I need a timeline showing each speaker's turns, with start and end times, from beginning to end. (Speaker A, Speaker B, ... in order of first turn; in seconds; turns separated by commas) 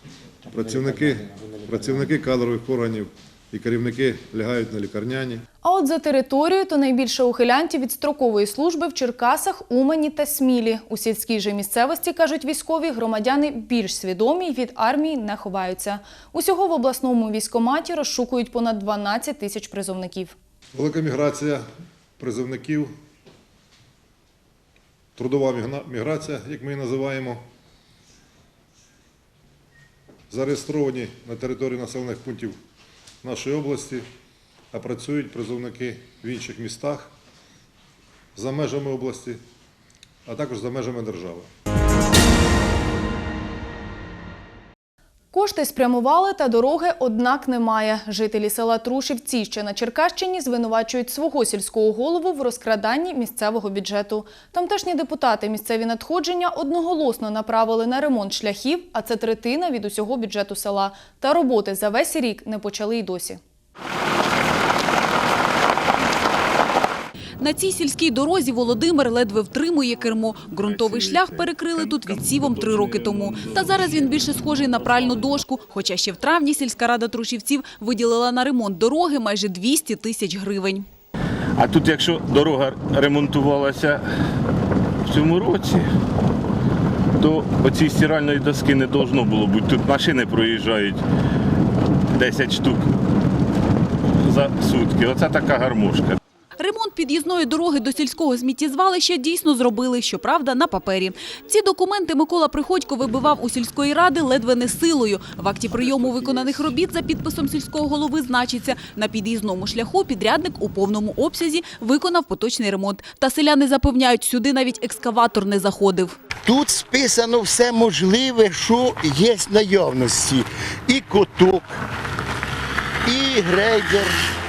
Speaker A: 0.5-5.4, Speaker B: 5.6-20.4, Speaker A: 20.7-21.6, Speaker A: 22.2-22.9, Speaker A: 25.2-27.4, Speaker A: 30.3-32.6, Speaker A: 33.2-34.0, Speaker A: 34.7-37.1, Speaker A: 38.4-39.4, Speaker A: 40.2-41.5, Speaker B: 45.3-63.4, Speaker C: 67.4-80.8, Speaker D: 70.6-74.1, Speaker D: 81.6-84.0, Speaker D: 85.0-85.9, Speaker D: 87.2-91.0, Speaker D: 92.1-92.9, Speaker D: 94.1-96.2, Speaker C: 96.6-116.1, Speaker E: 116.4-121.6, Speaker E: 123.0-124.1